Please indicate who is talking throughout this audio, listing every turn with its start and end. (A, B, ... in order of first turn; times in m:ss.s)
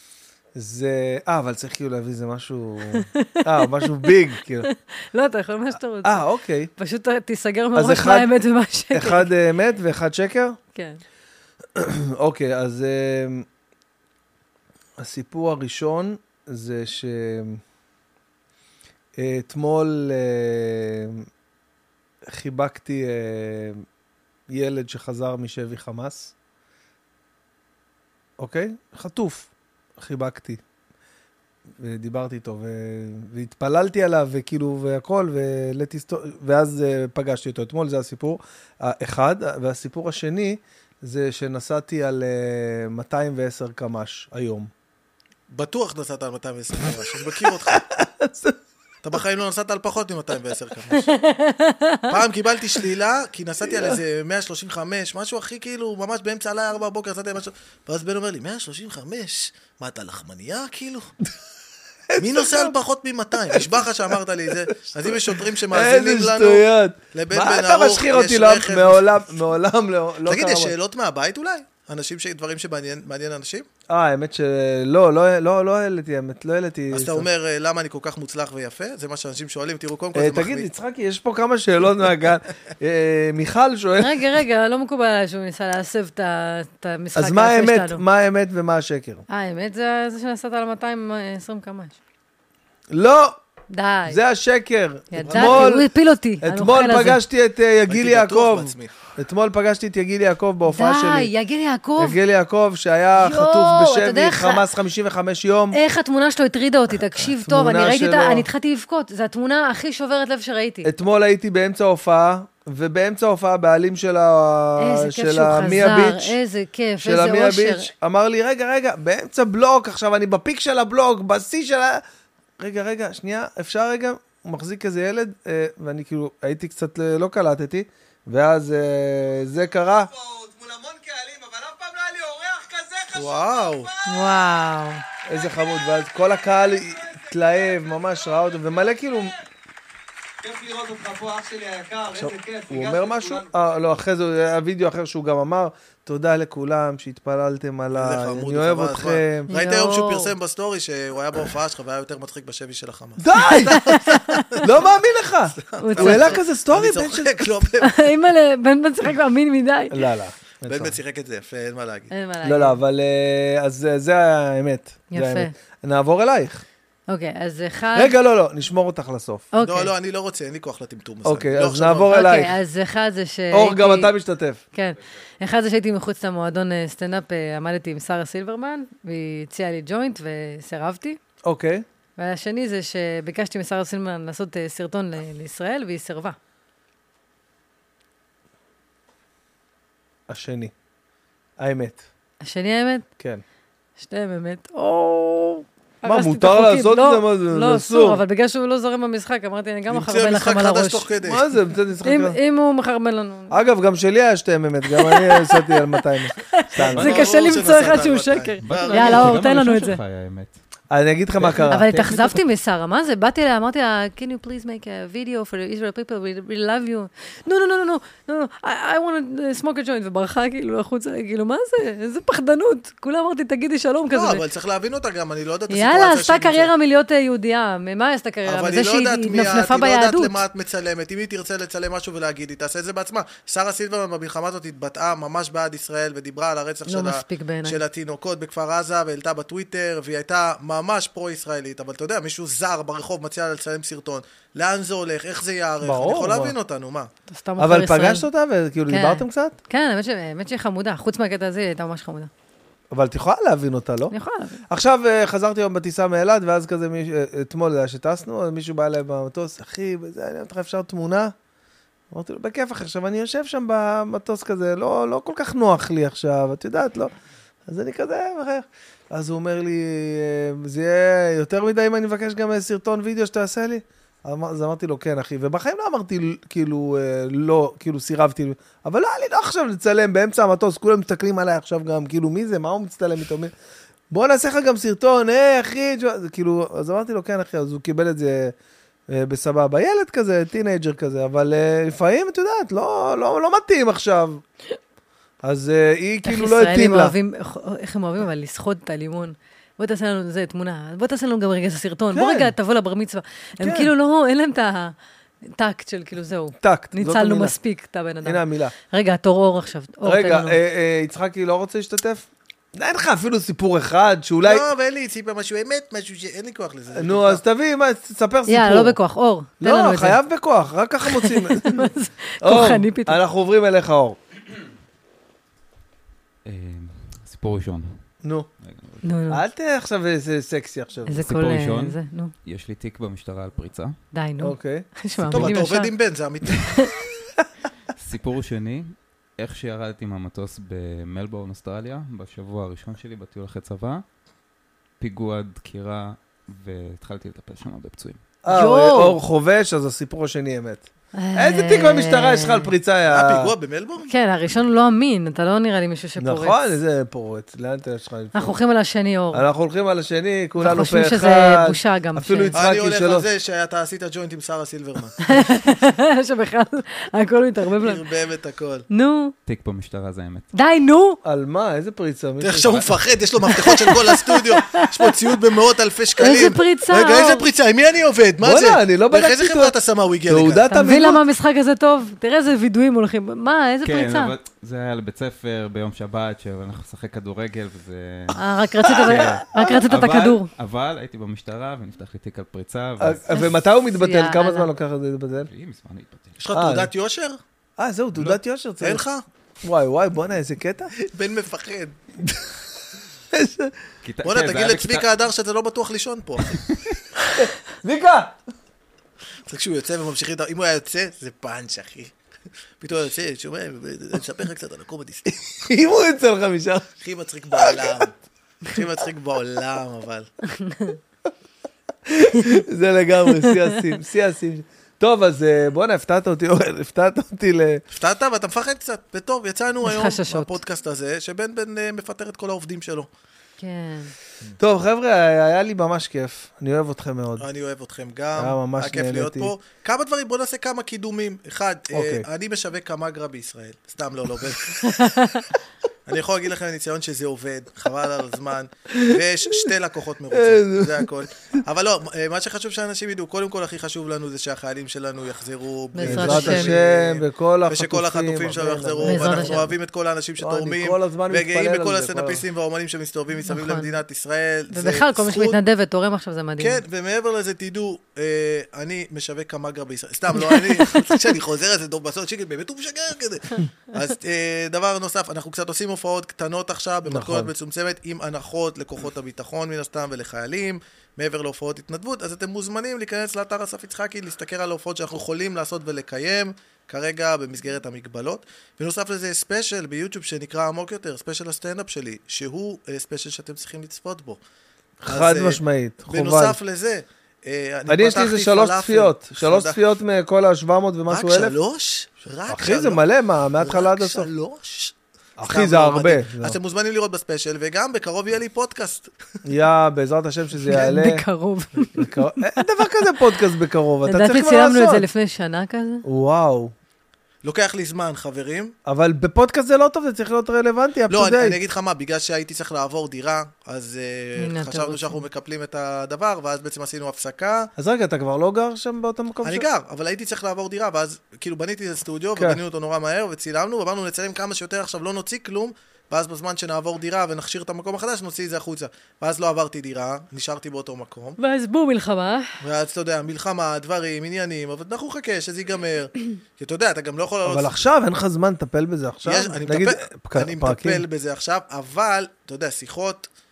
0:00.5-0:04.7 A
0:02.9-0:06.2 B
0:06.0-0:06.7 A
0:06.8-0:09.3 B
0:07.7-0:08.3 A
0:08.9-0:10.6 A
0:10.7-0:11.0 B
0:11.7-0:13.4 A
0:15.0-0:17.6 A
0:19.2-0:21.2 A
0:22.2-0:23.8 A
0:24.5-0:26.3 A
0:28.4-0:30.6 A
0:31.8-0:44.7 A
0:45.5-0:47.8 C
0:47.4-0:48.6 A
0:49.0-0:51.1 C
0:50.9-0:52.1 B
0:52.1-1:01.1 C
0:53.7-0:54.0 A
1:02.1-1:02.8 A
1:02.2-1:09.0 C
1:03.4-1:10.7 A
1:10.2-1:13.7 C
1:13.9-1:17.3 A
1:16.9-1:20.7 C
1:20.1-1:24.2 A
1:24.0-1:28.0 B
1:27.2-1:29.2 A
1:29.3-1:32.0 B
1:32.9-1:33.4 A
1:33.7-1:34.2 B
1:34.1-1:35.9 A
1:35.1-1:37.2 B
1:35.2-1:35.7 C
1:36.4-1:41.3 A
1:37.9-1:39.0 C
1:40.6-1:42.2 B
1:42.0-1:45.8 A
1:43.2-1:44.6 B
1:45.7-1:50.9 B
1:47.2-1:48.5 A
1:50.8-1:56.3 A
1:54.8-1:57.9 B
1:57.0-2:02.0 A
2:02.6-2:10.1 A
2:10.1-2:14.0 D
2:13.1-2:13.9 C
2:14.0-2:15.0 B
2:15.3-2:19.3 A
2:16.6-2:19.4 D
2:20.4-2:23.8 D
2:22.1-2:29.5 A
2:27.9-2:34.7 C
2:29.5-2:30.3 B
2:33.2-2:33.8 A
2:33.6-2:34.6 B
2:34.6-2:37.5 A
2:35.6-2:38.0 C
2:35.8-2:36.4 B
2:37.8-2:40.0 B
2:39.9-2:41.0 A
2:40.6-2:42.1 C
2:42.1-2:42.8 B
2:42.4-2:46.6 A
2:45.1-2:45.5 B
2:47.1-2:48.1 B
2:47.9-2:49.4 A
2:49.5-2:49.9 B
2:49.6-2:52.1 C
2:51.2-2:52.6 A
2:52.1-2:54.1 B
2:53.5-2:54.6 A
2:54.7-3:01.2 B
3:01.4-3:01.8 A
3:02.2-3:06.4 B
3:10.3-3:10.7 A
3:11.6-3:12.0 A
3:12.4-3:13.1 B
3:14.0-3:21.1 B
3:16.0-3:18.2 A
3:19.9-3:21.4 C
3:21.2-3:22.4 A
3:22.0-3:23.6 B
3:23.5-3:27.2 A
3:24.9-3:30.0 B
3:26.8-3:27.6 E
3:27.0-3:29.4 C
3:28.6-3:30.5 E
3:30.9-3:32.4 A
3:31.7-3:44.4 B
3:44.1-3:46.7 C
3:45.7-3:50.4 B
3:48.4-4:07.1 C
3:56.8-3:57.8 B
4:05.8-4:06.5 A
4:07.3-4:08.3 B
4:07.6-4:09.6 A
4:08.9-4:12.3 B
4:12.9-4:14.1 A
4:14.1-4:14.6 B
4:14.7-4:21.3 A
4:22.1-4:27.1 A
4:27.7-4:43.5 A
4:44.1-4:48.5 A
4:49.1-4:54.4 A
4:55.4-4:57.1 A
4:56.2-5:04.9 B
5:02.1-5:02.5 A
5:03.6-5:03.9 A
5:05.4-5:10.6 B
5:06.6-5:07.5 A
5:08.2-5:08.7 A
5:10.0-5:14.6 A
5:14.4-5:17.4 C
5:16.9-5:19.0 A
5:18.5-5:20.2 B
5:19.6-5:21.9 A
5:21.0-5:23.2 B
5:22.4-5:24.2 A
5:26.4-5:28.1 E
5:28.2-5:28.5 A
5:28.6-5:29.2 E
5:29.0-5:29.4 B
5:29.3-5:31.2 A
5:31.1-5:32.3 B
5:31.2-5:34.0 E
5:34.1-5:35.9 B
5:34.4-5:34.9 A
5:35.2-5:35.6 E
5:35.3-5:36.8 C
5:36.6-5:36.9 B
5:38.0-5:44.0 E
5:45.0-5:48.2 E
5:48.4-5:53.5 A
5:48.5-5:49.2 B
5:51.1-5:52.7 B
5:53.0-5:54.1 C
5:54.1-5:56.7 B
5:56.2-5:58.5 A
5:58.3-5:59.4 B
5:59.3-6:03.3 A
6:00.6-6:02.6 B
6:02.5-6:05.2 C
6:05.2-6:08.0 B
6:07.8-6:08.8 C
6:08.9-6:09.3 B
6:09.4-6:10.5 E
6:10.5-6:11.2 B
6:11.2-6:12.8 A
6:12.4-6:20.6 C
6:12.7-6:12.9 E
6:13.4-6:15.3 B
6:16.2-6:17.5 B
6:18.4-6:19.7 A
6:20.3-6:21.2 A
6:20.7-6:24.3 B
6:23.8-6:33.3 E
6:28.3-6:30.5 B
6:29.0-6:29.8 A
6:33.0-6:35.5 A
6:33.3-6:34.7 B
6:35.4-6:36.4 E
6:36.4-6:37.4 C
6:36.5-6:36.9 A
6:37.8-6:39.0 A
6:38.2-6:39.2 C
6:39.6-6:40.9 A
6:41.0-6:42.0 C
6:42.2-6:42.5 A
6:43.3-6:43.7 A
6:44.0-6:45.1 E
6:44.2-6:46.6 C
6:47.4-6:48.3 A
6:49.5-6:52.1 C
6:52.8-6:55.3 C
6:55.2-6:56.9 A
6:57.0-7:00.3 C
6:57.5-6:58.1 A
7:00.5-7:01.0 B
7:02.1-7:07.8 A
7:03.4-7:03.7 B
7:07.9-7:13.1 C
7:09.8-7:10.6 B
7:13.6-7:14.1 B
7:14.6-7:17.4 A
7:17.4-7:25.2 C
7:18.4-7:19.5 A
7:21.9-7:22.3 A
7:24.9-7:25.4 B
7:26.1-7:45.6 C
7:28.9-7:29.7 A
7:30.3-7:31.1 A
7:35.9-7:36.7 B
7:36.0-7:39.7 A
7:39.0-7:39.7 B
7:40.4-7:42.4 A
7:43.5-7:43.9 B
7:44.7-7:46.8 B
7:46.6-8:14.4 C
7:57.1-7:57.5 A
8:15.0-8:16.6 A
8:15.1-8:19.8 C
8:17.9-8:21.5 A
8:21.1-8:23.0 C
8:22.5-8:24.3 A
8:23.6-8:29.1 C
8:25.4-8:26.6 A
8:29.4-8:31.2 A
8:30.7-8:32.6 B
8:31.9-8:35.0 A
8:34.1-8:36.0 B
8:36.0-8:36.7 A
8:37.4-8:38.7 C
8:38.8-8:41.6 A
8:41.1-8:47.7 C
8:44.4-8:45.2 B
8:47.8-8:49.6 A
8:49.4-9:01.4 C
9:01.4-9:02.6 B
9:02.6-9:07.7 C
9:07.4-9:11.0 A
9:09.2-9:13.3 C